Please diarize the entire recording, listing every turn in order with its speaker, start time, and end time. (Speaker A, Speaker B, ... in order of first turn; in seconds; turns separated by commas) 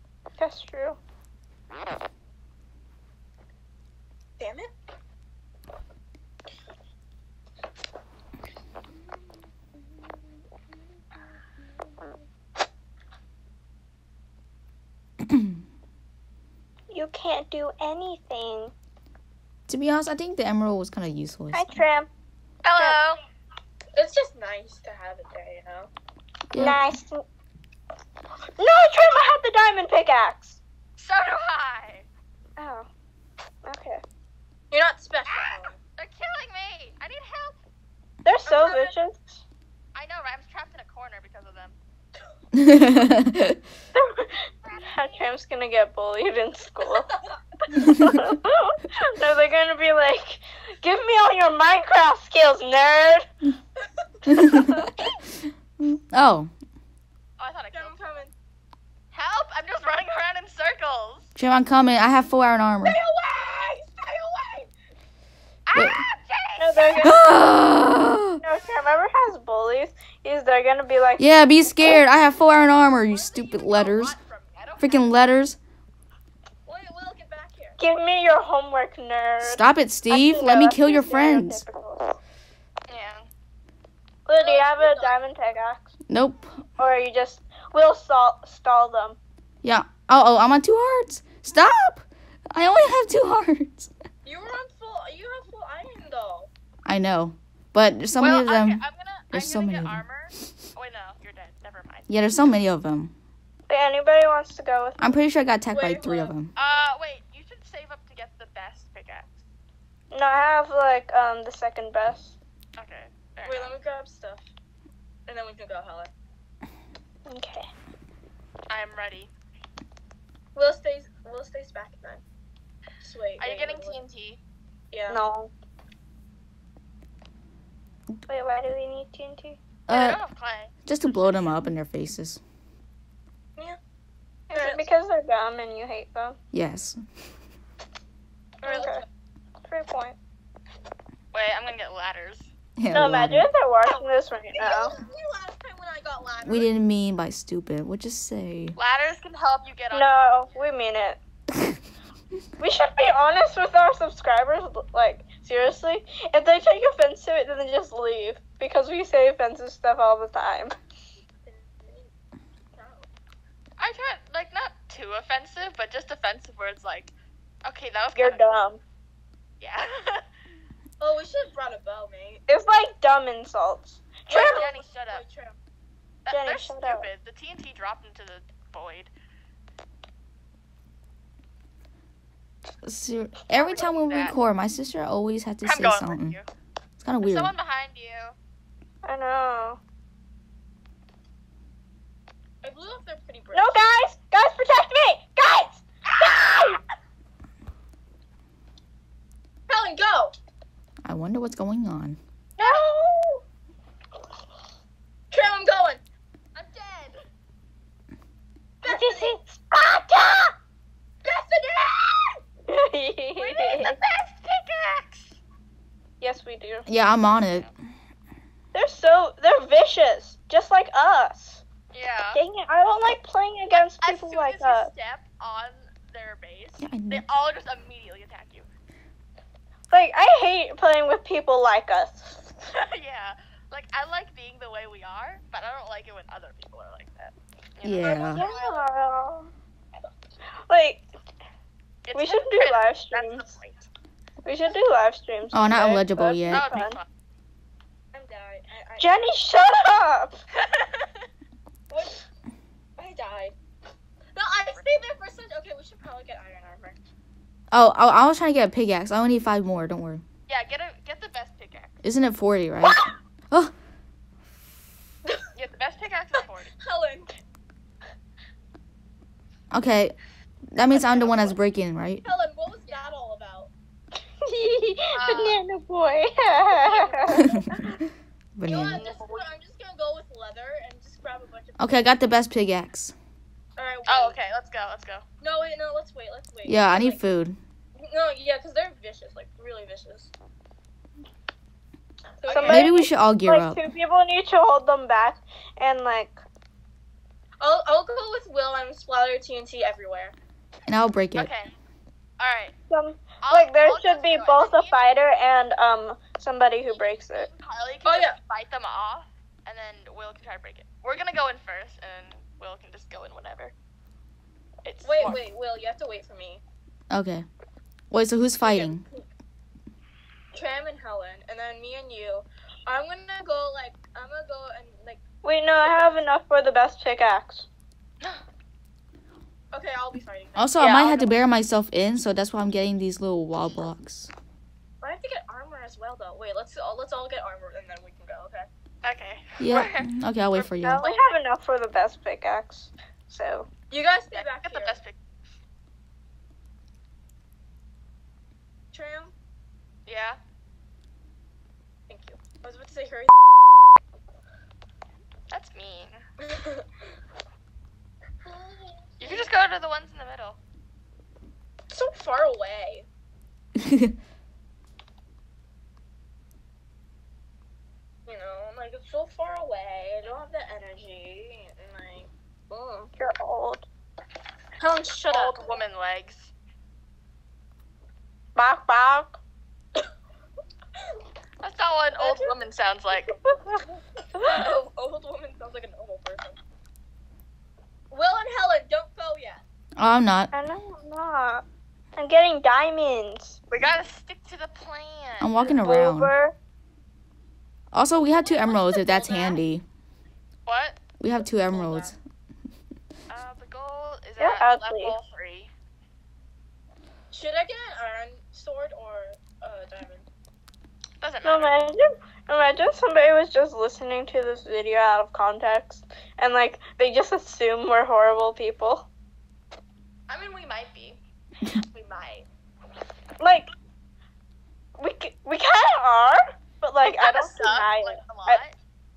Speaker A: 0.4-1.0, Speaker B: 4.4-4.7, Speaker A: 16.9-18.7, Speaker C: 19.7-21.8, Speaker A: 21.5-22.1, Speaker D: 22.6-23.2, Speaker B: 23.9-25.9, Speaker C: 26.5-26.8, Speaker A: 26.6-27.2, Speaker A: 28.6-30.6, Speaker D: 31.0-32.1, Speaker A: 32.6-32.9, Speaker A: 33.6-34.0, Speaker B: 34.7-35.8, Speaker D: 35.3-37.6, Speaker A: 38.2-39.4, Speaker B: 38.5-39.0, Speaker D: 39.9-41.8, Speaker C: 42.5-43.6, Speaker A: 44.0-47.1, Speaker D: 44.6-45.2, Speaker A: 47.7-53.3, Speaker C: 47.9-48.4, Speaker C: 54.2-54.9, Speaker C: 55.4-56.5, Speaker D: 57.4-58.2, Speaker B: 57.7-58.3, Speaker D: 59.1-61.3, Speaker C: 61.4-63.0, Speaker B: 62.8-64.7, Speaker D: 65.7-67.0, Speaker C: 65.7-66.0, Speaker A: 66.6-67.2, Speaker C: 67.0-68.4, Speaker A: 68.4-71.3, Speaker C: 71.2-74.2, Speaker B: 72.8-74.4, Speaker D: 73.2-73.6, Speaker D: 74.2-75.1, Speaker C: 74.8-75.6, Speaker B: 76.7-77.8, Speaker A: 77.8-82.2, Speaker C: 79.4-81.6, Speaker D: 82.9-83.3, Speaker A: 84.3-85.9, Speaker B: 84.4-85.2, Speaker C: 86.1-86.6, Speaker A: 86.8-89.2, Speaker C: 89.6-93.9, Speaker B: 94.2-96.5, Speaker C: 96.9-100.0, Speaker D: 98.2-102.1, Speaker C: 102.1-103.1, Speaker A: 103.7-105.2, Speaker C: 105.0-106.5, Speaker B: 105.7-106.3, Speaker D: 106.6-109.4, Speaker A: 110.1-112.4, Speaker D: 112.8-113.8, Speaker B: 113.5-114.5, Speaker B: 115.3-116.1, Speaker A: 117.2-117.7, Speaker D: 118.7-119.3, Speaker B: 120.5-122.2, Speaker B: 123.0-124.0, Speaker D: 123.4-124.4, Speaker B: 124.9-125.2, Speaker A: 125.1-125.5, Speaker A: 128.3-129.6, Speaker C: 129.9-130.2, Speaker D: 129.9-130.7, Speaker C: 130.9-132.4, Speaker A: 134.5-136.4, Speaker B: 134.5-134.8, Speaker C: 136.5-137.0, Speaker B: 138.6-139.1, Speaker A: 138.6-139.1, Speaker A: 139.7-140.2, Speaker D: 141.3-142.5, Speaker C: 142.8-143.5, Speaker A: 142.9-144.9, Speaker B: 144.5-146.7, Speaker C: 146.4-148.8, Speaker D: 148.8-150.7, Speaker A: 149.9-151.2, Speaker A: 152.6-160.8, Speaker B: 161.4-162.1, Speaker B: 162.7-163.1, Speaker D: 163.8-167.1, Speaker D: 167.6-168.5, Speaker A: 168.2-168.8, Speaker D: 169.6-170.2, Speaker B: 171.0-172.4, Speaker A: 172.5-174.7, Speaker B: 174.3-175.6, Speaker D: 174.3-175.2, Speaker D: 176.2-179.1, Speaker A: 176.3-177.1, Speaker C: 182.8-186.4, Speaker D: 183.5-184.3, Speaker D: 185.6-186.5, Speaker C: 187.0-187.5, Speaker D: 187.2-188.4, Speaker A: 189.0-189.8, Speaker B: 192.6-193.9, Speaker A: 193.5-196.8, Speaker B: 199.7-200.3, Speaker C: 201.1-202.2, Speaker A: 202.6-203.4, Speaker B: 202.6-202.9, Speaker B: 205.3-206.0, Speaker D: 206.6-206.8, Speaker B: 206.8-207.2, Speaker B: 208.8-209.4, Speaker A: 208.8-210.6, Speaker B: 211.2-212.4, Speaker A: 212.7-214.0, Speaker D: 213.4-215.4, Speaker A: 216.2-216.9, Speaker C: 216.9-217.7, Speaker A: 218.7-221.6, Speaker D: 221.9-222.4, Speaker A: 222.3-224.9, Speaker D: 223.9-228.7, Speaker C: 226.8-227.2, Speaker A: 229.9-232.4, Speaker D: 232.7-238.4, Speaker C: 237.8-238.4, Speaker B: 238.3-238.9, Speaker A: 238.3-239.5, Speaker A: 240.7-241.1, Speaker D: 242.1-243.9, Speaker A: 242.1-243.5, Speaker A: 244.4-247.0, Speaker C: 245.5-246.8, Speaker D: 246.5-247.1, Speaker B: 248.1-249.2, Speaker A: 249.0-250.4, Speaker D: 250.6-251.3, Speaker B: 251.9-252.2, Speaker B: 253.0-253.6, Speaker B: 254.3-257.0, Speaker C: 257.7-260.2, Speaker D: 260.5-262.0, Speaker C: 262.0-263.7, Speaker D: 265.6-266.7, Speaker B: 266.8-267.3, Speaker C: 269.7-270.2, Speaker C: 270.7-272.2, Speaker B: 271.2-271.5, Speaker B: 272.2-273.7, Speaker A: 274.4-277.8, Speaker D: 275.2-275.6, Speaker B: 276.7-277.7, Speaker C: 277.3-277.8, Speaker C: 278.6-279.1, Speaker B: 278.6-282.0, Speaker D: 278.9-279.5, Speaker C: 281.8-283.1, Speaker B: 283.8-284.4, Speaker D: 284.1-285.2, Speaker B: 285.4-287.2, Speaker C: 286.7-287.6, Speaker B: 288.0-290.3, Speaker B: 292.4-292.9, Speaker A: 292.5-296.4, Speaker C: 292.7-293.8, Speaker B: 297.6-300.4, Speaker C: 300.9-301.5, Speaker D: 301.4-301.7, Speaker D: 302.4-302.7, Speaker A: 302.9-307.5, Speaker D: 303.4-305.0, Speaker D: 307.4-313.7, Speaker B: 308.1-308.4, Speaker D: 314.8-315.4, Speaker B: 315.0-316.6, Speaker C: 317.1-317.4, Speaker C: 318.1-319.0, Speaker B: 318.6-319.2, Speaker B: 320.5-325.2, Speaker A: 325.4-327.7, Speaker B: 329.7-331.3, Speaker C: 330.6-334.3, Speaker B: 335.0-338.7, Speaker D: 339.0-341.3, Speaker C: 339.6-341.1, Speaker A: 340.9-343.7, Speaker B: 343.9-345.0, Speaker D: 344.3-345.2, Speaker B: 348.9-349.3, Speaker D: 350.1-350.4, Speaker B: 352.1-353.8, Speaker D: 355.5-356.2, Speaker B: 356.4-356.9, Speaker B: 358.4-359.5, Speaker D: 359.2-360.6, Speaker B: 361.9-363.1, Speaker C: 363.8-364.1, Speaker B: 368.2-373.1, Speaker A: 373.2-373.9, Speaker B: 374.8-375.7, Speaker D: 375.3-376.5, Speaker A: 378.5-379.4, Speaker D: 381.6-383.4, Speaker B: 382.2-382.6, Speaker A: 383.4-383.8, Speaker B: 384.3-386.6, Speaker B: 388.1-389.6, Speaker C: 390.0-390.5, Speaker A: 390.5-391.6, Speaker A: 392.2-393.6, Speaker D: 393.7-395.8, Speaker C: 395.4-396.3, Speaker A: 395.8-396.5, Speaker C: 397.9-399.8, Speaker B: 398.4-399.6, Speaker D: 400.7-401.0, Speaker C: 401.2-402.2, Speaker B: 401.4-402.1, Speaker D: 403.3-405.7, Speaker A: 404.4-405.2, Speaker B: 407.3-410.3, Speaker D: 411.2-411.8, Speaker A: 411.4-419.1, Speaker B: 420.3-421.2, Speaker B: 421.9-422.4, Speaker A: 423.4-423.7, Speaker A: 425.0-428.6, Speaker D: 427.0-428.8